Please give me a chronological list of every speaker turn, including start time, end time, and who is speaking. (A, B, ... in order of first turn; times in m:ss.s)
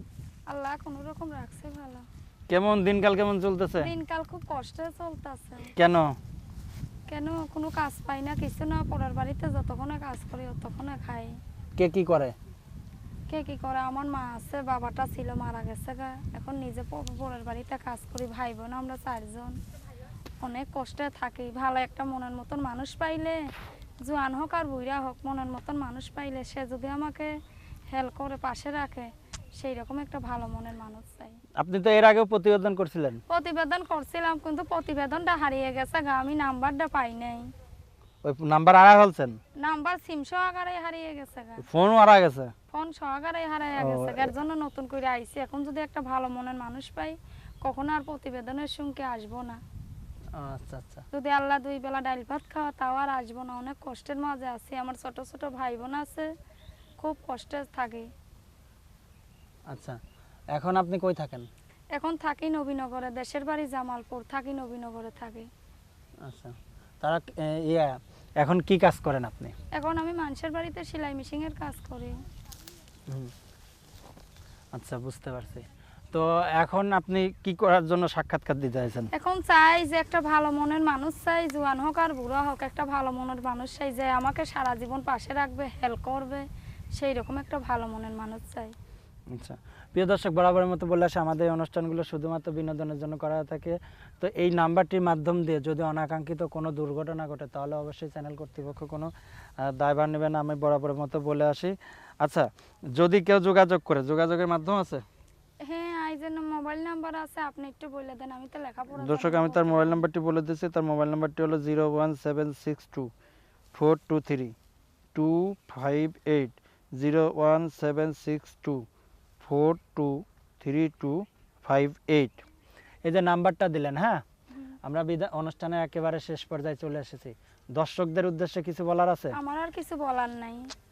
0:00.5-0:02.1 A
0:02.5-0:03.9 B
0:03.8-0:05.7 A
0:05.7-0:06.2 B
0:07.1-0:11.4 A
0:11.8-0:12.3 B
0:13.3-0:19.6 A
0:20.4-0:23.4 A
0:24.0-0:27.3 A
0:27.9-0:31.4 A
0:31.6-0:33.2 B
0:33.3-0:37.5 A
0:38.2-0:39.4 B
0:39.6-0:41.6 A
0:41.6-0:42.5 B
0:42.7-0:49.6 A
0:43.8-0:44.3 B
0:50.4-0:51.0 B
0:51.1-0:56.3 A
0:57.0-0:58.1 A
0:59.7-1:00.0 B
1:00.5-1:01.5 B
1:02.0-1:05.5 A
1:06.2-1:09.5 B
1:09.8-1:12.2 A
1:14.7-1:19.1 B
1:19.1-1:28.7 A
1:29.3-1:45.0 B
1:45.6-1:50.0 A
1:49.0-1:53.1 B
1:53.7-1:54.6 B
1:55.1-1:58.9 B
1:59.4-2:02.4 B
2:03.0-2:04.2 B
2:04.8-2:09.4 B
2:09.3-2:10.7 A